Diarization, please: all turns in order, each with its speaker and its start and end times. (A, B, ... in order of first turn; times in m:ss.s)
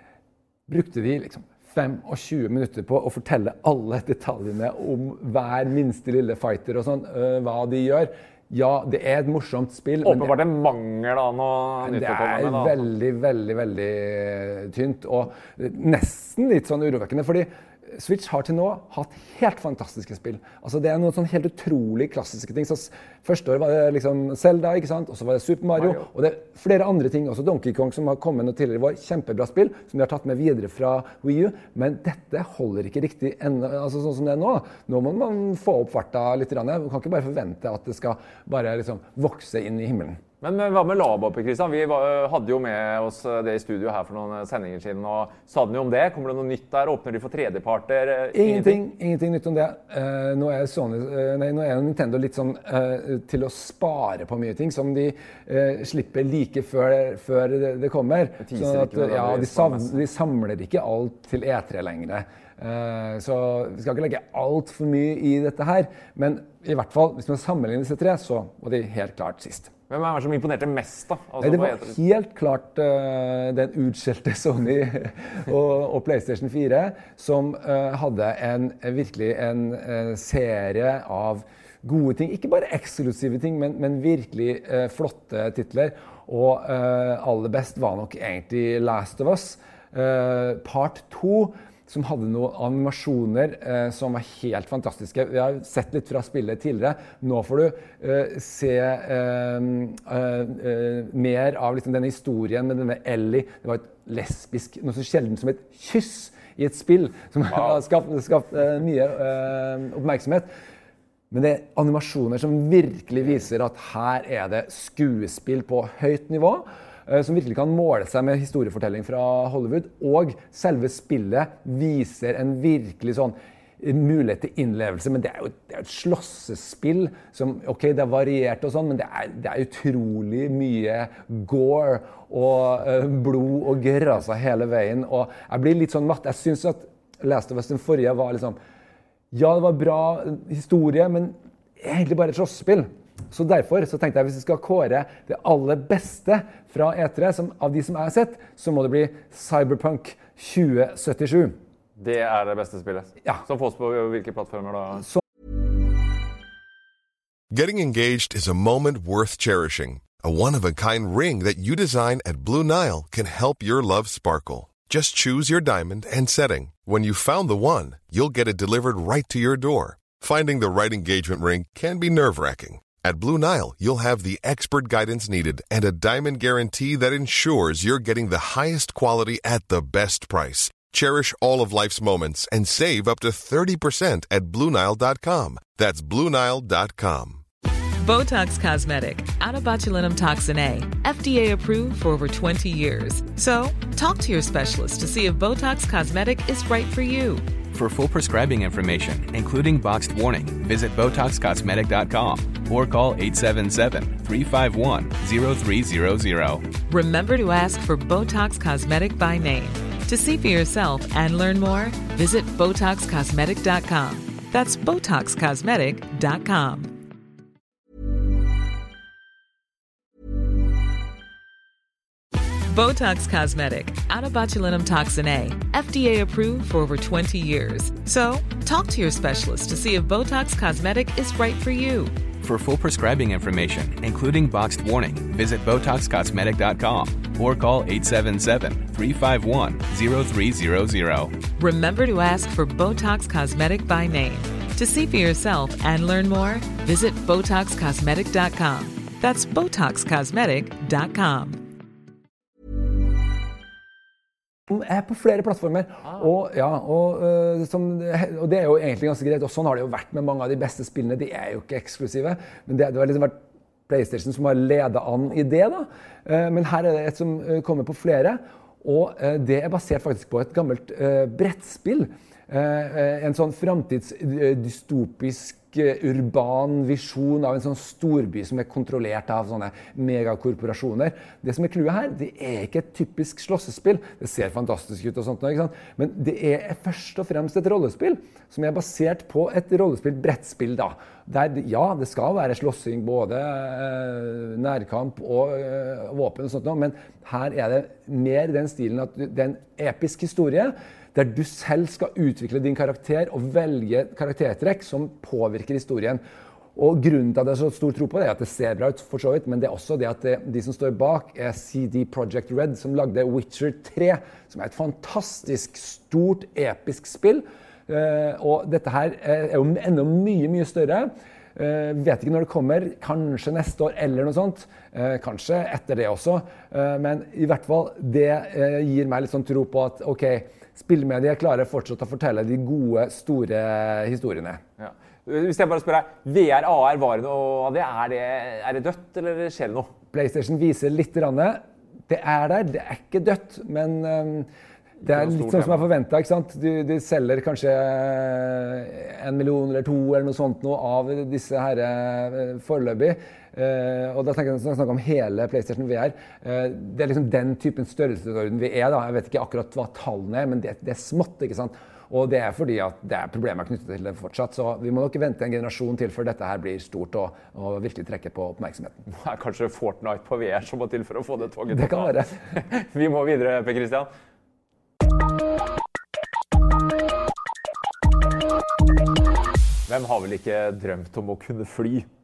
0:00.7-0:10.4 A
0:10.0-0:12.8 B
0:11.8-0:40.2 A
0:25.8-0:26.1 B
0:40.4-0:48.8 B
0:48.3-1:09.7 A
0:58.4-1:00.0 B
1:09.9-1:12.0 B
1:11.4-1:50.5 A
1:51.3-2:18.6 A
2:19.3-2:31.6 A
2:32.0-2:35.1 B
2:37.5-3:07.4 C
3:08.0-3:17.5 D
3:17.7-3:26.7 E
3:26.9-3:37.0 D
3:42.7-3:52.2 D
3:52.4-4:01.4 E
4:01.6-4:11.7 D
4:14.7-4:23.4 A
4:23.9-5:06.2 A
5:06.8-5:34.6 A
5:34.8-5:39.9 B
5:40.1-5:44.5 A
5:45.0-5:45.8 B
5:45.0-6:09.0 A
6:09.1-6:14.1 B
6:11.7-6:12.3 A
6:19.9-6:22.1 B